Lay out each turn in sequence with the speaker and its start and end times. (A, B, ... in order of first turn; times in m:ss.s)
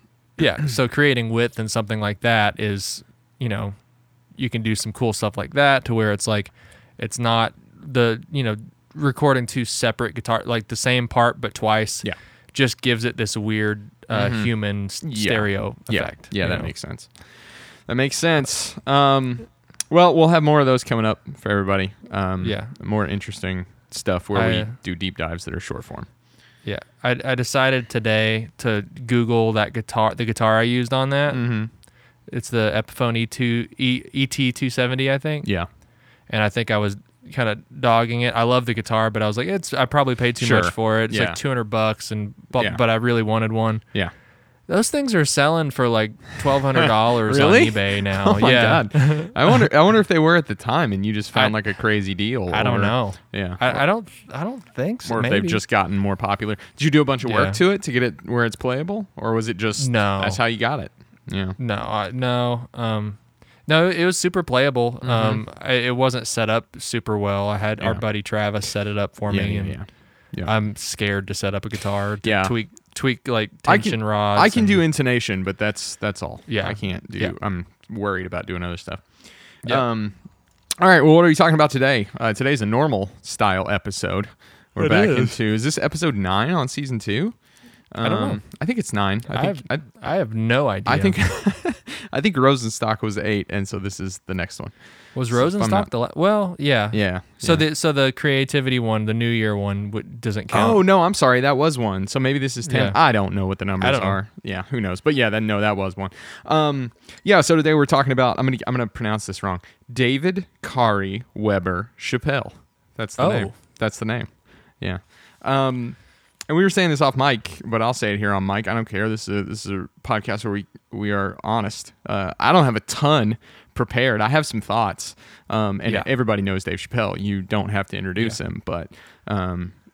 0:00.4-0:03.7 A
0:04.3-0:16.7 A
0:14.1-0:26.1 B
0:22.4-0:22.7 A
0:24.3-0:24.8 A
0:26.6-0:31.4 A
0:31.3-0:31.7 B
0:32.3-0:35.5 A
0:35.4-0:35.7 B
0:36.3-0:43.8 A
0:40.4-0:41.4 B
0:44.7-0:49.7 A
0:46.7-0:53.8 B
0:52.5-0:55.6 A
0:55.0-1:01.6 B
0:57.2-0:57.6 A
0:59.8-1:00.4 A
1:01.6-1:09.8 A
1:05.0-1:05.4 B
1:09.3-1:10.5 B
1:10.4-1:14.8 A
1:12.2-1:12.5 B
1:13.6-1:19.1 B
1:16.5-1:17.4 A
1:19.6-1:20.2 B
1:20.8-1:27.4 B
1:24.8-1:25.4 A
1:27.9-1:29.8 B
1:28.0-1:28.4 A
1:29.3-1:31.2 A
1:30.8-1:34.7 B
1:35.1-1:40.8 A
1:35.3-1:35.9 B
1:36.9-1:37.6 B
1:40.5-2:09.7 B
1:42.6-1:43.0 A
1:43.8-1:44.2 A
1:53.2-1:53.5 A